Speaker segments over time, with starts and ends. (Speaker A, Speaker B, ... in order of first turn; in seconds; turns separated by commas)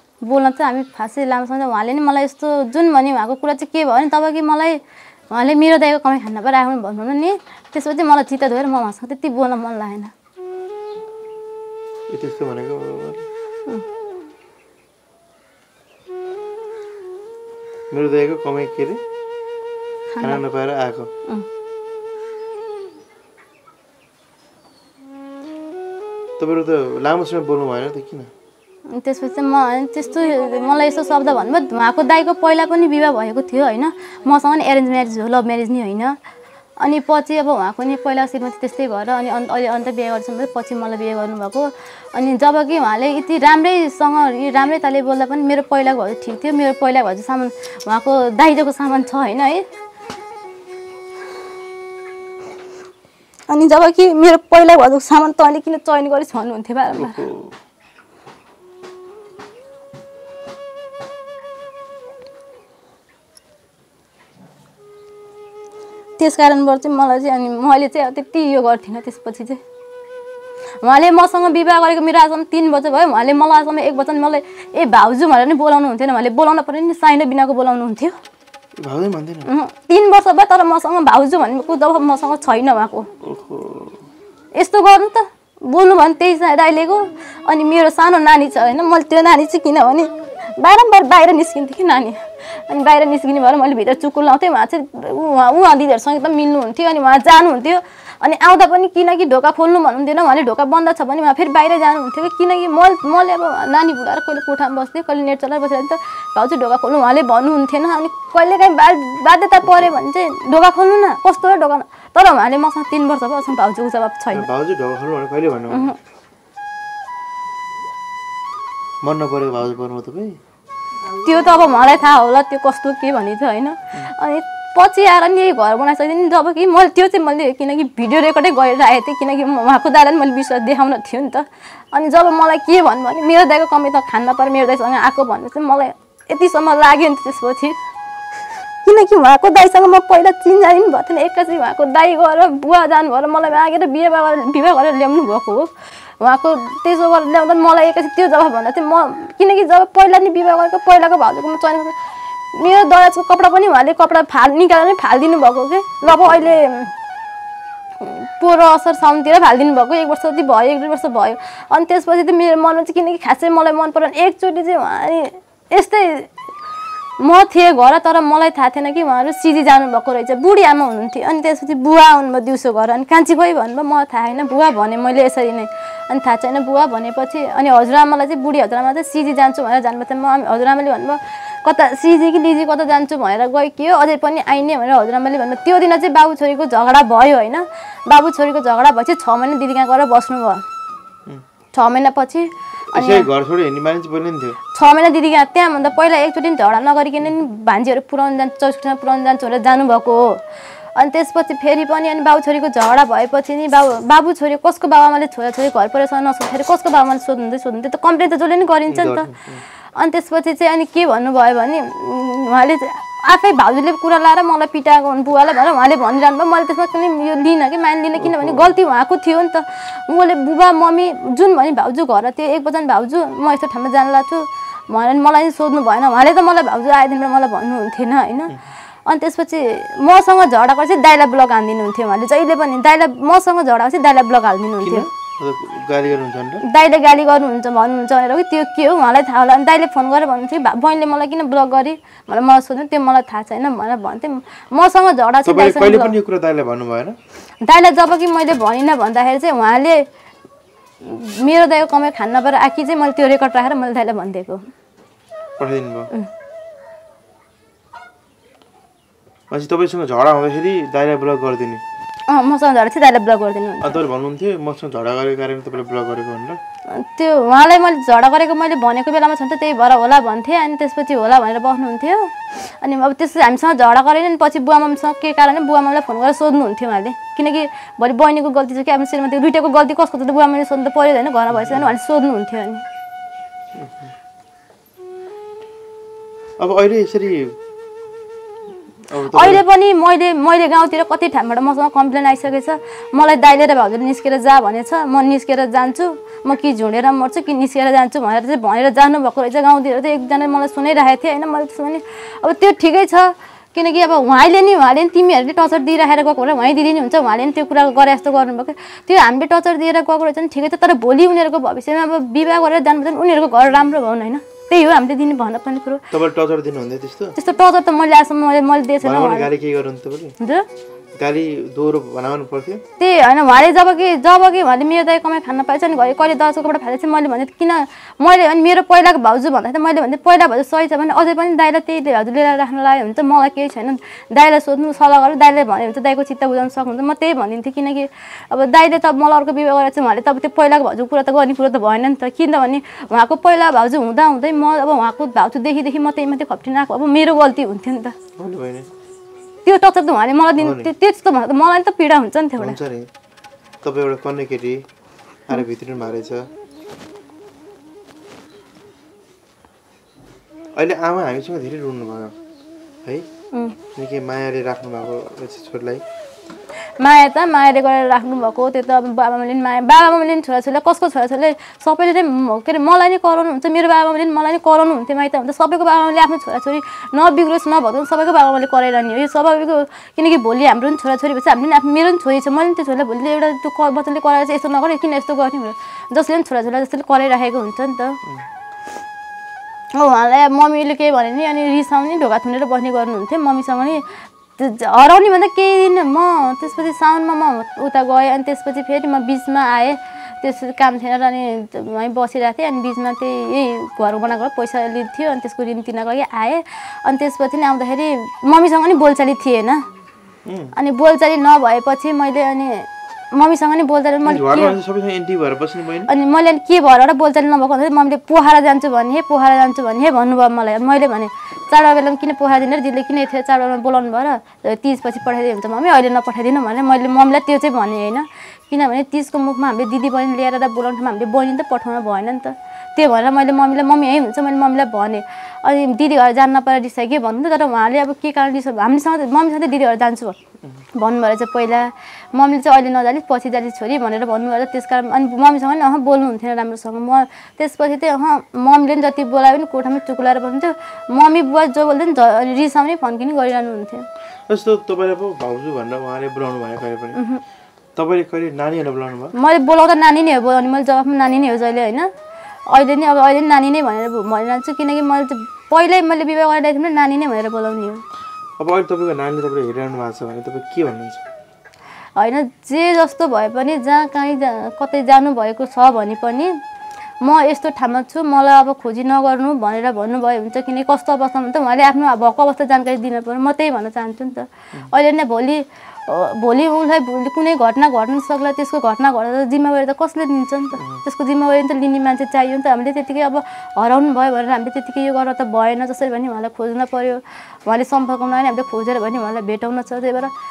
Speaker A: 0.2-4.8, Speaker A: 5.3-10.1, Speaker B: 12.1-13.3, Speaker B: 17.9-19.0, Speaker A: 20.1-20.4, Speaker B: 20.2-21.1, Speaker B: 26.4-28.3, Speaker A: 28.9-36.2, Speaker A: 36.8-49.6, Speaker A: 53.5-57.2, Speaker B: 56.9-57.5, Speaker A: 66.2-69.6, Speaker A: 70.8-78.2, Speaker B: 78.8-79.5, Speaker A: 79.5-83.1, Speaker B: 83.2-84.1, Speaker A: 84.6-114.5, Speaker B: 109.6-109.9, Speaker B: 114.3-115.9, Speaker A: 115.7-116.0, Speaker B: 119.0-120.4, Speaker A: 121.0-137.8, Speaker A: 138.8-152.0, Speaker A: 152.5-156.9, Speaker A: 158.0-166.3, Speaker A: 167.2-190.6, Speaker A: 191.7-193.3, Speaker B: 192.9-194.6, Speaker A: 194.7-209.3, Speaker B: 208.9-209.7, Speaker A: 210.0-235.1, Speaker B: 218.2-218.7, Speaker B: 234.8-236.6, Speaker A: 236.6-246.2, Speaker B: 245.4-247.2, Speaker A: 247.6-250.0, Speaker A: 251.0-254.7, Speaker B: 255.6-256.1, Speaker B: 259.5-261.8, Speaker A: 262.3-264.0, Speaker B: 263.8-266.6, Speaker A: 266.9-282.8, Speaker B: 281.5-281.9, Speaker B: 283.8-284.1, Speaker B: 286.6-287.6, Speaker B: 289.1-289.6, Speaker A: 289.2-316.1, Speaker B: 316.1-317.4, Speaker A: 317.4-319.5, Speaker B: 319.0-320.4, Speaker A: 320.4-320.6, Speaker B: 321.2-322.8, Speaker A: 323.0-348.1, Speaker B: 348.4-348.9, Speaker A: 349.6-352.8, Speaker B: 350.6-350.9, Speaker B: 352.6-353.1, Speaker B: 353.8-354.8, Speaker B: 355.5-356.5, Speaker B: 360.8-362.4, Speaker B: 364.0-366.0, Speaker A: 367.0-388.2, Speaker A: 389.9-409.8, Speaker B: 410.5-410.8, Speaker A: 410.8-414.8, Speaker B: 414.2-416.1, Speaker A: 416.1-440.4, Speaker A: 440.9-454.1, Speaker B: 454.5-457.2, Speaker A: 457.1-457.4, Speaker B: 458.0-459.3, Speaker A: 459.4-462.1, Speaker A: 462.7-468.0, Speaker B: 468.6-471.2, Speaker A: 472.2-476.5, Speaker A: 477.2-500.3